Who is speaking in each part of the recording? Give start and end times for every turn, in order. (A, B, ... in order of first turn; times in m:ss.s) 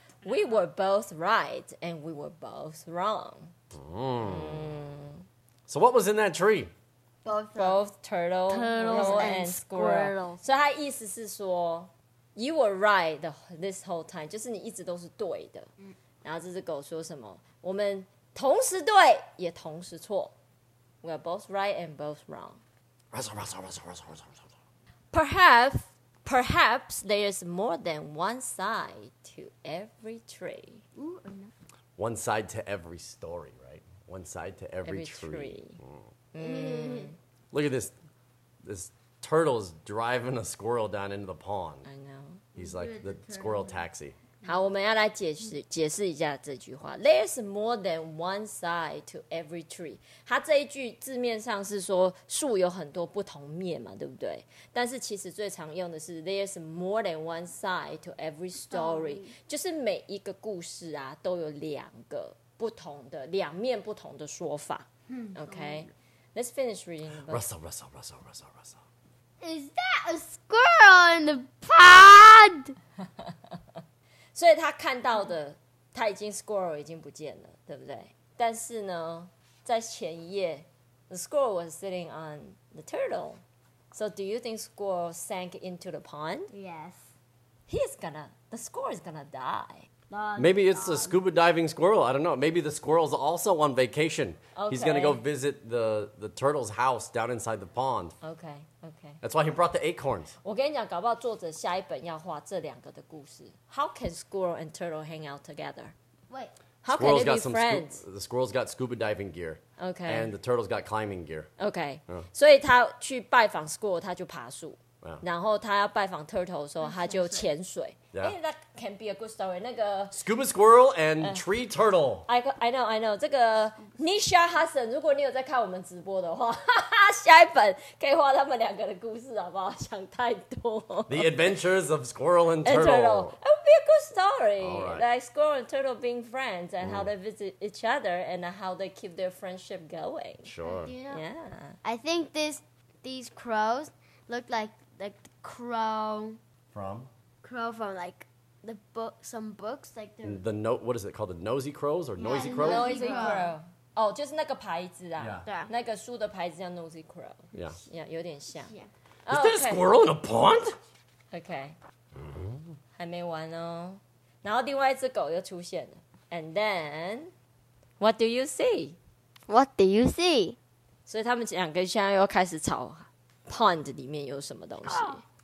0:00.2-0:03.5 A
0:03.7-0:04.7 B
0:04.2-0:05.2 A
0:05.7-0:06.7 B
0:07.2-0:07.8 C
0:07.5-0:15.7 A
0:08.5-0:10.4 C
0:16.2-0:20.3 A
0:21.0-0:22.6 A
0:23.1-0:24.5 B
0:25.1-0:30.8 A
0:31.0-0:31.5 C
0:32.0-0:36.0 B
0:34.8-0:35.8 A
0:36.3-0:37.2 A
0:36.4-0:37.1 C
0:37.5-0:37.9 B
0:38.6-0:41.8 B
0:41.8-0:42.5 A
0:42.5-0:43.8 C
0:42.5-0:44.2 B
0:44.4-1:07.4 A
0:58.7-0:59.3 C
1:05.1-1:05.9 C
1:07.3-1:08.8 B
1:09.4-1:12.7 C
1:14.3-1:26.5 A
1:26.5-1:27.1 C
1:27.7-1:29.9 A
1:30.1-1:31.2 C
1:30.4-1:38.1 B
1:34.6-1:35.2 A
1:38.2-1:39.2 A
1:39.2-1:40.3 B
1:40.4-1:45.9 A
1:46.8-1:48.0 A
1:46.9-1:51.5 B
1:49.8-1:50.3 A
1:51.6-2:00.1 A
1:56.8-1:57.5 C
2:00.1-2:02.2 B
2:02.3-2:11.4 A
2:11.1-2:13.4 B
2:12.6-2:20.5 A
2:14.6-2:15.0 B
2:16.8-2:17.1 B
2:20.4-2:20.9 B
2:20.6-2:21.2 C
2:21.1-2:21.8 A
2:21.8-2:26.4 C
2:26.7-2:27.1 B
2:27.4-2:30.4 C
2:30.2-2:33.1 B
2:32.2-2:33.5 C
2:32.6-2:38.7 A
2:35.2-2:35.4 B
2:35.4-2:35.7 C
2:37.5-2:37.8 B
2:38.5-2:38.9 C
2:39.3-2:39.8 A
2:39.3-2:40.8 B
2:41.3-2:41.8 A
2:42.2-2:42.6 B
2:43.0-2:47.3 A
2:48.0-2:49.0 A
2:49.5-2:50.6 C
2:51.1-2:55.2 A
2:54.9-2:55.1 C